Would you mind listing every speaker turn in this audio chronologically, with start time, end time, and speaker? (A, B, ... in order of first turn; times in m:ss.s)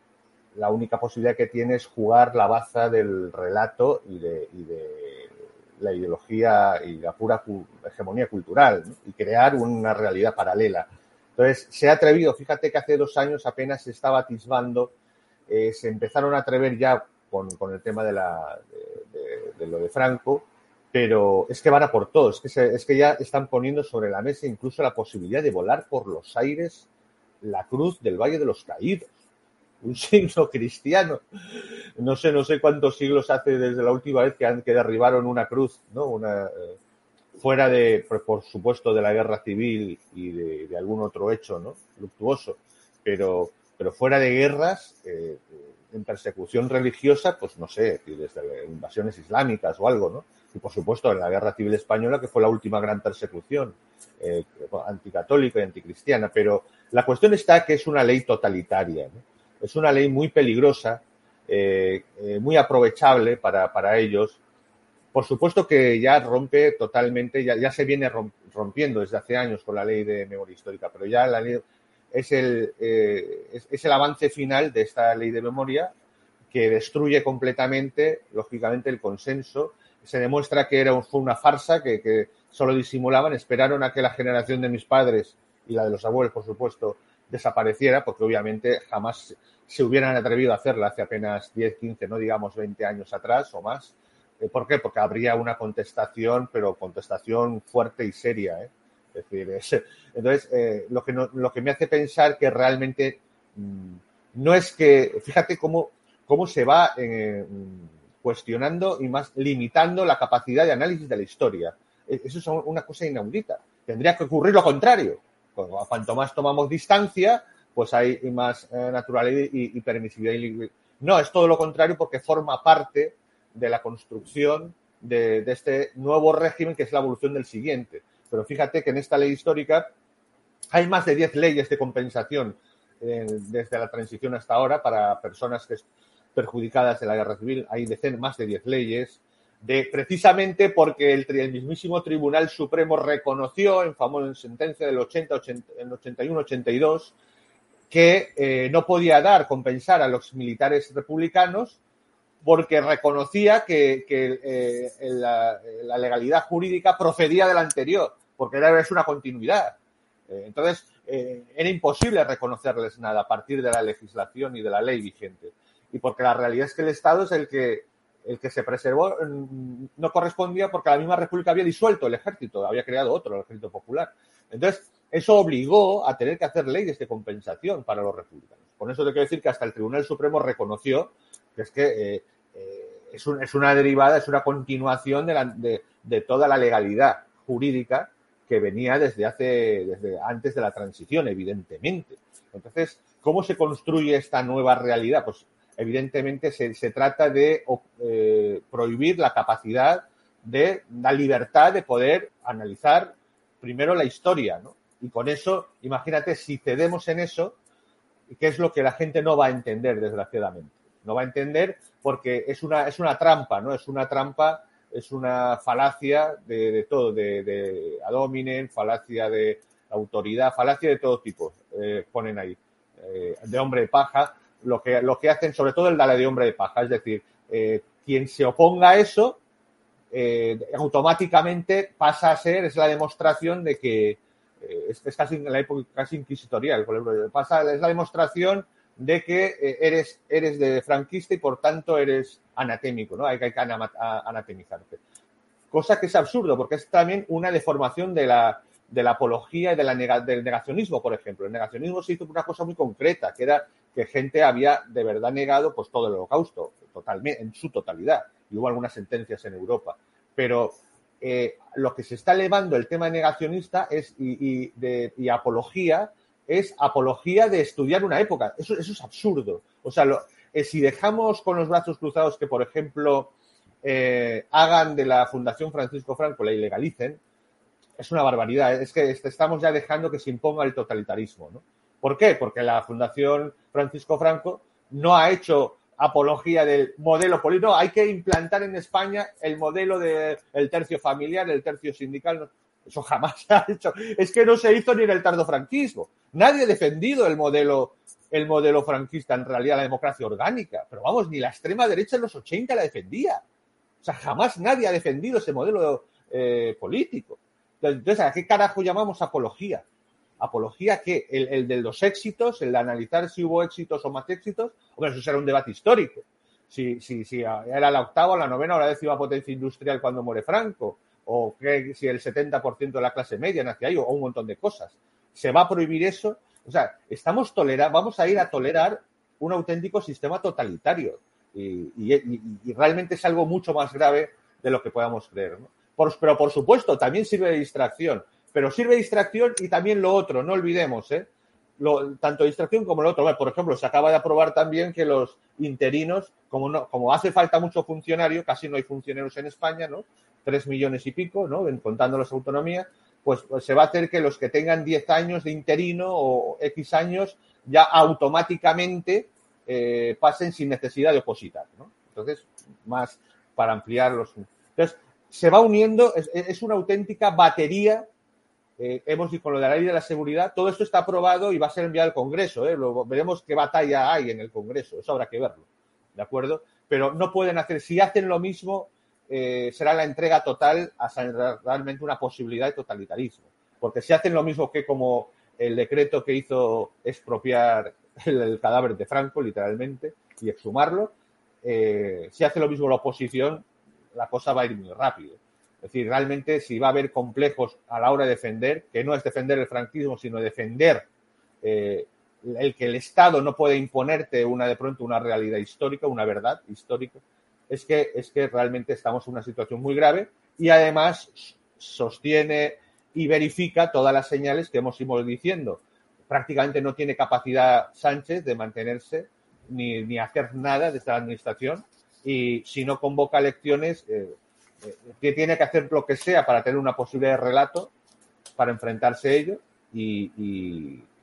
0:00.5-0:14.9 A
0:15.5-0:26.8 A
0:27.4-0:29.1 A
0:29.8-0:31.2 A
0:32.0-0:36.8 A
0:37.4-1:04.4 A
1:05.1-1:15.9 A
1:16.5-2:09.9 A
2:10.7-2:27.1 A
2:27.9-2:31.8 A
2:32.4-2:39.8 A
2:40.3-3:27.6 A
3:28.3-3:49.4 A
3:50.1-4:05.0 A
4:05.7-4:37.2 A
4:38.0-5:03.4 A
5:04.0-5:09.8 A
5:10.4-6:08.1 A
6:08.8-6:41.1 A
6:41.6-7:07.9 A
7:08.6-7:11.0 A